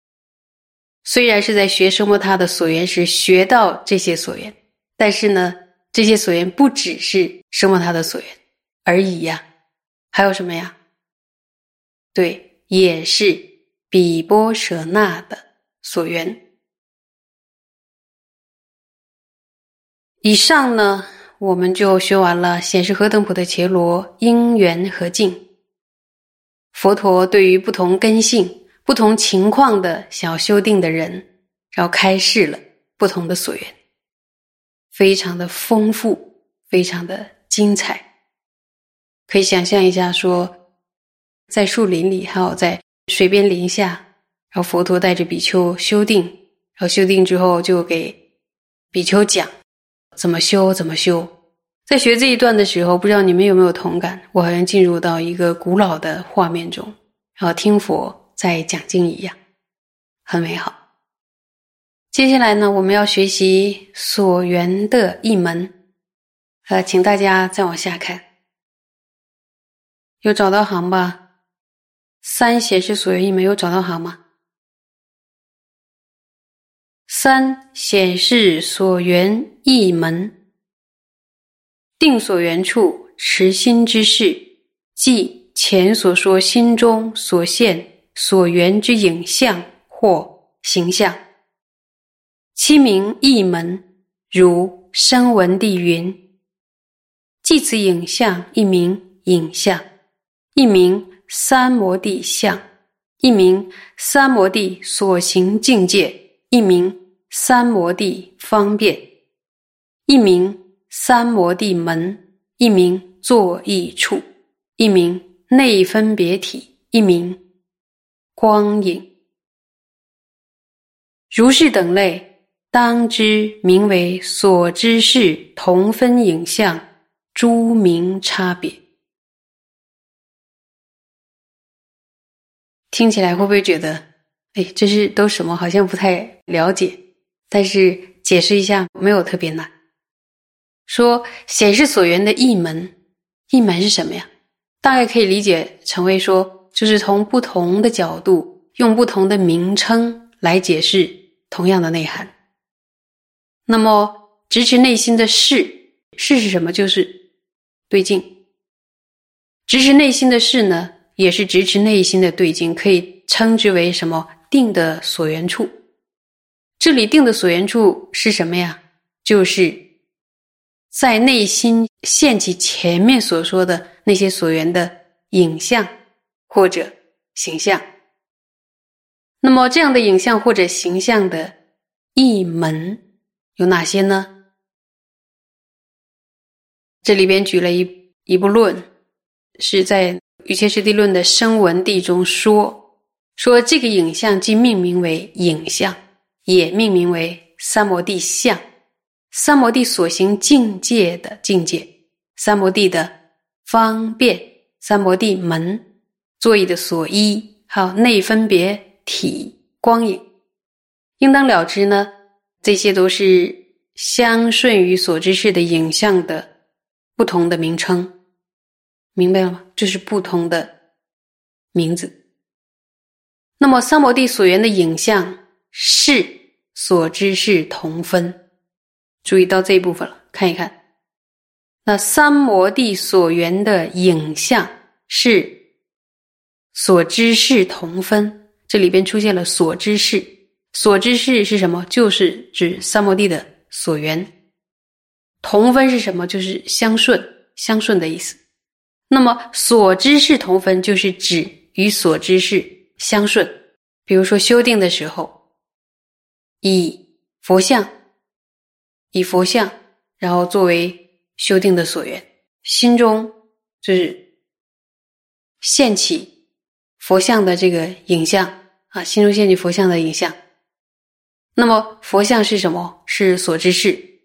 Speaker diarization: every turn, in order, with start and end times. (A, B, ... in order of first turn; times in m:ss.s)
0:01.0-0:09.4 A
0:10.1-0:10.7 A
0:12.1-0:16.4 A
0:20.2-0:25.4 A
0:26.7-0:33.7 A
0:34.9-0:38.0 A
0:39.3-0:40.5 A
0:41.5-0:48.2 A
0:48.9-0:49.5 A
0:50.2-0:51.3 A
0:51.9-0:59.4 A
1:00.2-1:00.7 A
1:02.1-1:05.7 A
1:06.7-1:08.2 A
1:10.2-1:11.2 A
1:12.2-1:14.2 A
1:17.1-1:20.3 A
1:22.0-1:24.4 A
1:24.9-1:31.2 A
1:32.5-1:36.2 A
1:37.4-1:39.8 A
1:40.5-1:42.6 A
1:43.2-1:49.0 A
1:50.1-1:54.2 A
1:54.8-1:57.4 A
1:58.4-1:59.0 A
2:01.3-2:08.8 A
2:12.9-2:14.0 A
2:14.5-2:19.7 A
2:20.9-2:22.9 A
2:23.5-2:24.3 A
2:24.8-2:32.3 A
2:33.6-2:37.1 A
2:37.9-2:38.3 A
2:39.7-2:45.7 A
2:46.8-2:49.8 A
2:50.9-2:55.9 A
2:56.5-2:57.8 A
2:59.4-3:01.5 A
3:02.1-3:03.0 A
3:03.6-3:04.3 A
3:07.0-3:08.8 A
3:09.6-3:12.8 A
3:13.4-3:18.6 A
3:19.3-3:23.1 A
3:23.6-3:25.8 A
3:26.4-3:30.2 A
3:31.2-3:36.5 A
3:37.2-3:38.1 A
3:39.2-3:40.7 A
3:41.7-3:42.1 A
3:43.6-3:48.4 A
3:49.2-3:50.7 A
3:51.8-3:55.5 A
3:56.7-4:04.3 A
4:05.4-4:08.4 A
4:09.1-4:13.5 A
4:14.0-4:15.3 A
4:16.6-4:17.9 A
4:19.1-4:24.2 A
4:25.6-4:26.3 A
4:27.0-4:30.4 A
4:31.6-4:34.0 A